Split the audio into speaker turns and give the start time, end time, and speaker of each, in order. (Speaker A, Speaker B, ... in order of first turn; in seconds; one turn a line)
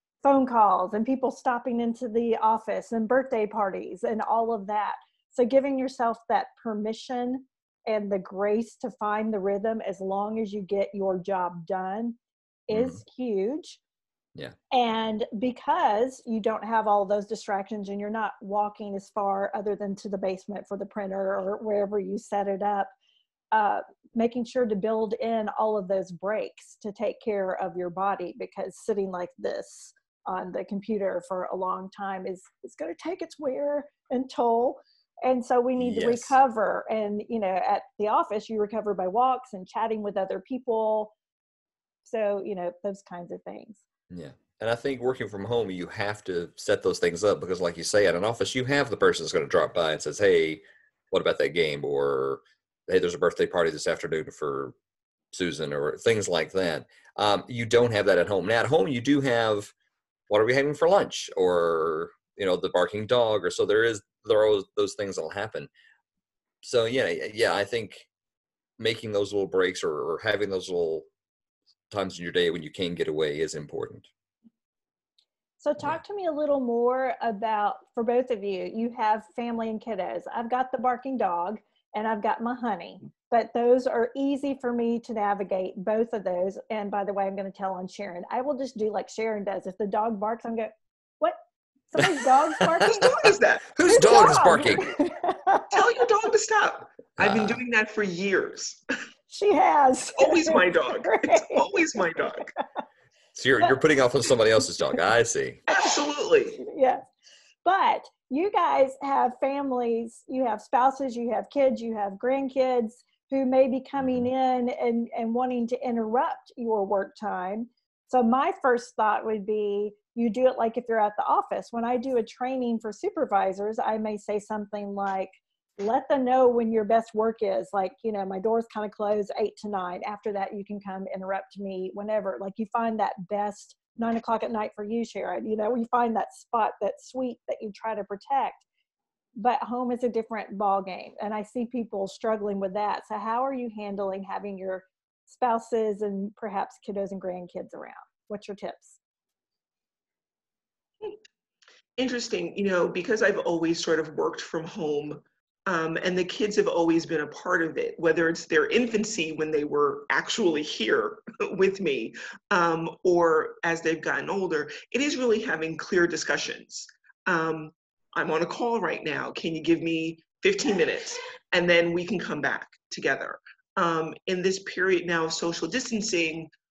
Speaker A: 0.2-13.8
Speaker B: 12.7-13.0
Speaker A: 14.7-22.9
Speaker A: 23.5-41.1
Speaker B: 35.8-36.3
Speaker A: 42.0-43.8
Speaker B: 44.1-54.7
Speaker B: 55.3-59.7
Speaker B: 60.3-65.7
Speaker B: 66.6-68.1
Speaker B: 68.8-71.1
Speaker B: 71.9-74.1
Speaker A: 75.6-91.4
Speaker A: 91.9-93.3
Speaker C: 92.8-94.5
Speaker B: 93.7-94.9
Speaker A: 93.8-95.8
Speaker C: 95.7-98.8
Speaker B: 97.2-97.6
Speaker A: 99.3-101.7
Speaker C: 100.2-102.5
Speaker B: 103.3-105.6
Speaker C: 105.7-106.6
Speaker A: 106.6-107.1
Speaker A: 107.6-138.6
Speaker A: 139.4-149.0
Speaker C: 152.0-176.5